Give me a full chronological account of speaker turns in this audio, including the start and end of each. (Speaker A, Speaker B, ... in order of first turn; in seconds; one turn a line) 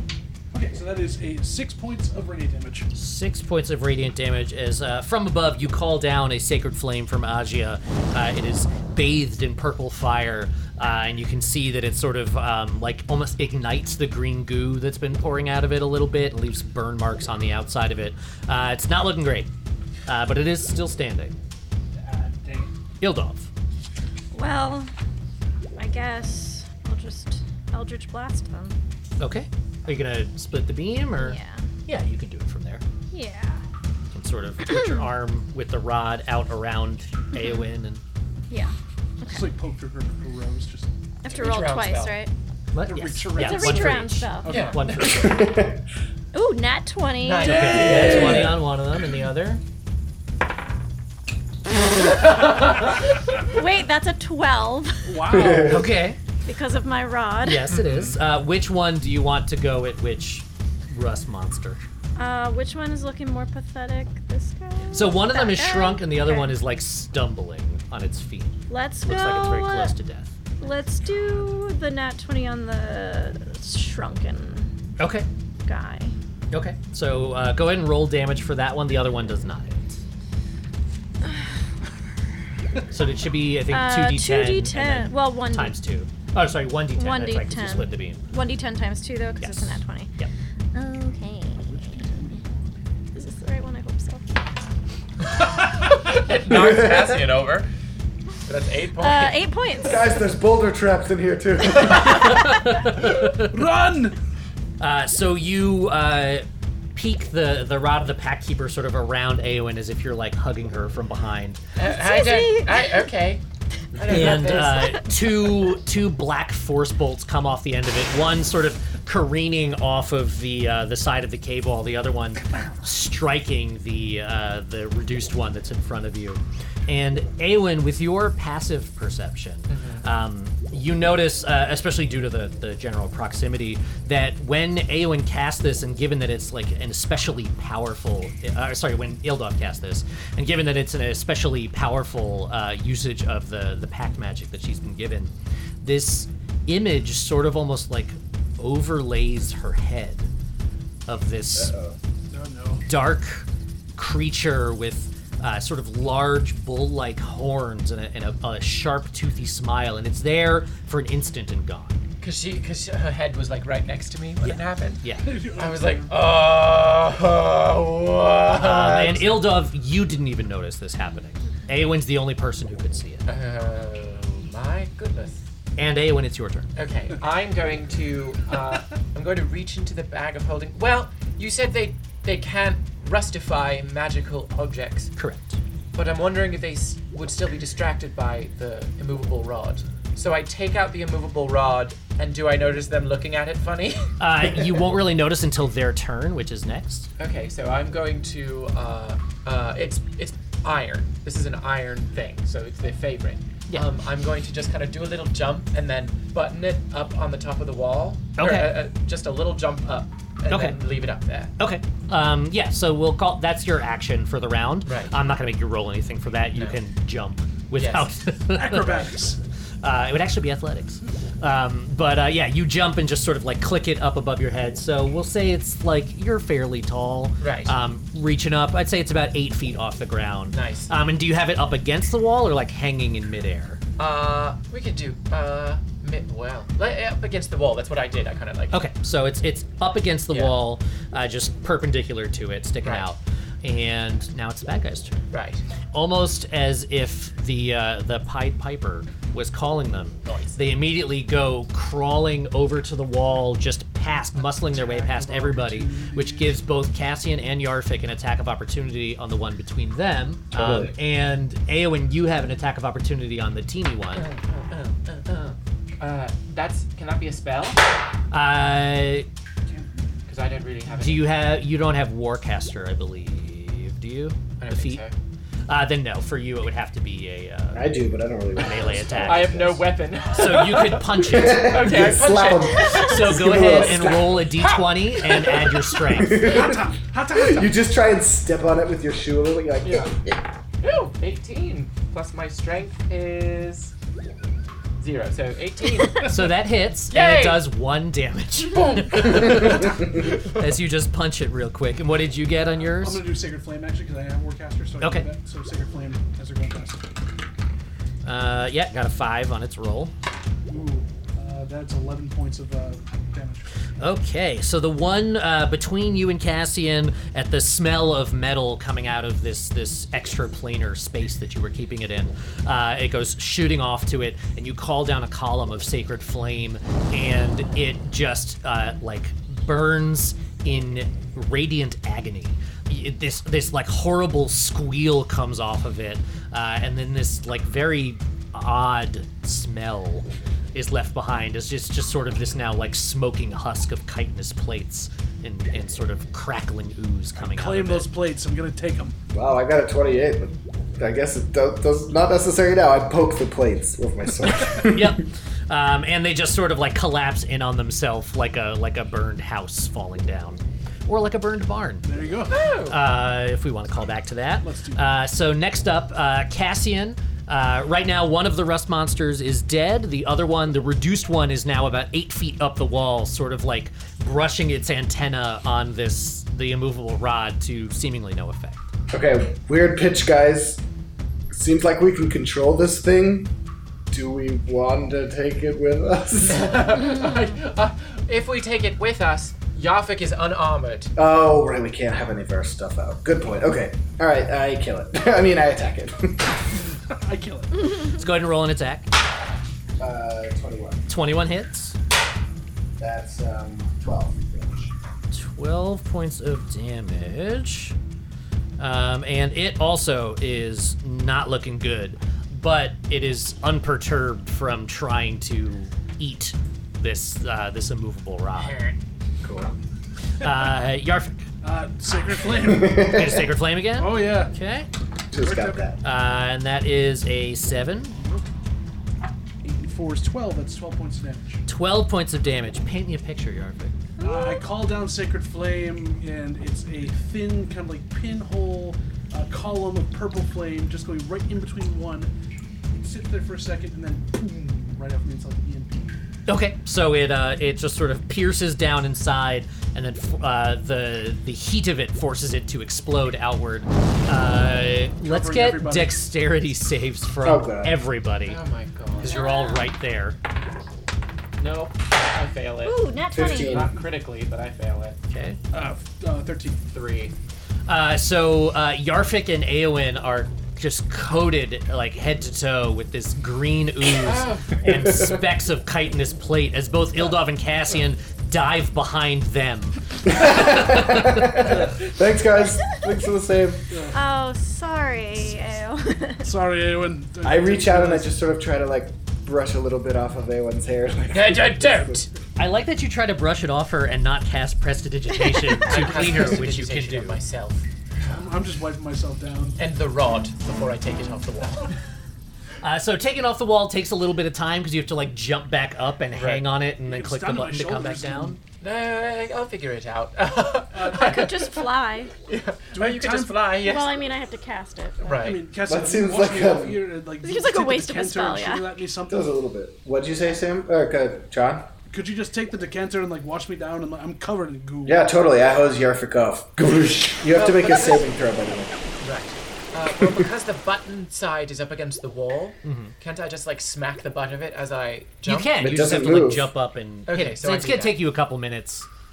Speaker A: 0.5-2.9
Speaker B: 2.9-19.5
Speaker B: 20.1-21.3
Speaker A: 21.9-22.7
Speaker B: 23.0-23.5
Speaker C: 24.3-24.9
Speaker C: 25.8-28.8
Speaker B: 29.2-32.8
Speaker C: 31.1-31.6
Speaker C: 33.1-33.6
Speaker B: 34.1-38.0
Speaker C: 34.7-35.0
Speaker C: 37.3-37.6
Speaker C: 38.5-39.5
Speaker A: 39.3-40.9
Speaker C: 41.2-42.3
Speaker D: 41.2-42.2
Speaker B: 42.7-45.5
Speaker A: 42.8-44.8
Speaker C: 43.3-44.6
Speaker D: 44.5-45.3
Speaker E: 45.0-45.8
Speaker C: 46.3-47.9
Speaker D: 47.2-48.5
Speaker B: 47.4-49.6
Speaker A: 47.5-48.3
Speaker E: 47.8-48.6
Speaker D: 52.4-52.6
Speaker C: 53.4-55.2
Speaker A: 55.1-55.9
Speaker E: 55.3-55.9
Speaker B: 55.6-56.2
Speaker C: 56.4-57.7
Speaker B: 57.4-61.8
Speaker C: 62.1-66.6
Speaker B: 64.9-70.3
Speaker C: 68.7-69.9
Speaker C: 70.6-74.7
Speaker B: 75.0-75.3
Speaker C: 75.6-76.1
Speaker B: 76.5-80.0
Speaker B: 82.9-88.2
Speaker C: 83.7-85.8
Speaker C: 86.9-90.1
Speaker B: 89.4-90.3
Speaker C: 90.7-92.0
Speaker A: 91.6-92.6
Speaker C: 93.1-94.2
Speaker D: 95.6-97.7
Speaker E: 96.5-97.1
Speaker D: 98.5-99.4
Speaker C: 99.0-100.1
Speaker E: 99.8-102.4
Speaker B: 101.9-103.6
Speaker A: 103.0-104.2
Speaker B: 104.8-111.6
Speaker D: 111.8-113.4
Speaker C: 111.9-113.0
Speaker D: 114.0-115.0
Speaker B: 114.0-150.3
Speaker D: 129.7-130.0
Speaker B: 151.1-151.7
Speaker E: 151.5-151.9
Speaker A: 152.3-152.8
Speaker B: 152.8-162.0
Speaker D: 162.2-165.0
Speaker B: 164.4-165.3
Speaker A: 165.2-166.1
Speaker D: 165.5-169.4
Speaker B: 168.5-173.3
Speaker D: 173.2-175.4
Speaker B: 175.8-176.7
Speaker D: 176.8-185.1
Speaker B: 185.2-185.6
Speaker D: 185.9-194.1
Speaker B: 194.2-197.1
Speaker D: 197.2-211.5
Speaker B: 208.4-208.7
Speaker B: 210.5-210.8
Speaker B: 211.6-219.2
Speaker D: 214.8-215.1
Speaker D: 217.8-218.1
Speaker A: 218.5-219.4
Speaker B: 219.8-233.8
Speaker D: 227.4-227.7
Speaker D: 230.5-230.9
Speaker D: 234.0-238.8
Speaker B: 238.7-245.2
Speaker D: 240.3-240.6
Speaker D: 242.8-243.1
Speaker D: 245.3-245.6
Speaker B: 245.9-264.3
Speaker D: 250.2-250.6
Speaker A: 254.7-256.6
Speaker E: 260.5-260.9
Speaker D: 264.2-267.8
Speaker B: 268.3-269.2
Speaker A: 269.6-270.1
Speaker D: 270.2-271.4
Speaker B: 270.9-275.0
Speaker D: 274.6-275.1
Speaker B: 275.7-279.6
Speaker E: 277.7-279.9
Speaker D: 279.2-283.9
Speaker B: 280.3-282.1
Speaker E: 281.2-284.5
Speaker B: 282.9-286.6
Speaker D: 284.6-285.8
Speaker E: 286.1-290.4
Speaker A: 286.3-287.8
Speaker D: 289.8-290.1
Speaker D: 290.8-293.9
Speaker D: 295.0-296.5
Speaker B: 296.2-303.2
Speaker D: 297.1-297.6
Speaker D: 298.6-300.4
Speaker A: 302.6-307.1
Speaker B: 305.0-305.3
Speaker B: 308.2-310.1
Speaker A: 310.7-313.6
Speaker B: 314.0-348.1
Speaker A: 347.4-349.1
Speaker E: 349.3-355.2
Speaker B: 354.7-362.1
Speaker A: 362.0-362.6
Speaker D: 362.5-363.0
Speaker B: 362.9-378.9
Speaker A: 364.6-365.0
Speaker E: 379.1-380.8
Speaker E: 381.5-383.5
Speaker E: 384.1-387.0
Speaker D: 386.4-391.1
Speaker E: 391.1-396.6
Speaker A: 396.9-397.8
Speaker B: 398.0-399.1
Speaker E: 400.0-401.0
Speaker B: 401.1-401.9
Speaker E: 403.0-404.9
Speaker B: 405.3-407.9
Speaker B: 408.8-418.8
Speaker D: 418.5-419.0
Speaker E: 419.4-419.7
Speaker B: 420.4-421.4
Speaker A: 421.6-423.3
Speaker E: 422.5-423.4
Speaker B: 422.9-424.9
Speaker A: 424.0-424.5
Speaker E: 425.3-426.0
Speaker A: 425.4-425.9
Speaker B: 426.0-428.2
Speaker A: 428.2-428.4
Speaker A: 429.6-431.6
Speaker B: 431.7-434.0
Speaker D: 434.2-434.6
Speaker A: 434.2-442.3
Speaker A: 442.9-446.1
Speaker B: 446.5-458.6
Speaker A: 455.2-456.2
Speaker E: 457.4-458.0
Speaker D: 458.4-459.4
Speaker B: 459.2-460.4
Speaker C: 459.2-459.9
Speaker D: 461.6-465.2
Speaker C: 462.8-463.9
Speaker E: 463.3-464.0
Speaker B: 465.3-465.6
Speaker A: 465.7-466.8
Speaker D: 466.9-467.3
Speaker B: 467.9-481.6
Speaker D: 474.1-474.9
Speaker E: 474.8-475.4
Speaker E: 480.2-483.9
Speaker A: 483.9-484.2
Speaker C: 484.1-486.4
Speaker A: 486.4-488.3
Speaker E: 487.4-492.3
Speaker D: 491.3-492.3
Speaker B: 492.6-497.4
Speaker D: 495.8-498.3
Speaker A: 498.3-499.8
Speaker D: 499.8-501.9
Speaker B: 502.8-508.6
Speaker D: 506.4-506.6
Speaker A: 507.0-508.6
Speaker D: 508.8-511.9
Speaker A: 510.9-511.3
Speaker C: 511.2-512.3
Speaker D: 512.5-514.1
Speaker A: 512.9-513.7
Speaker C: 513.7-515.3
Speaker D: 515.2-515.6
Speaker A: 515.2-519.4
Speaker E: 515.8-517.0
Speaker C: 517.4-518.9
Speaker E: 519.3-521.9
Speaker A: 522.1-525.2
Speaker E: 525.0-529.0
Speaker D: 527.5-528.2
Speaker D: 529.2-535.8
Speaker B: 532.8-533.1
Speaker B: 535.4-539.1
Speaker E: 535.8-536.7
Speaker D: 537.3-538.2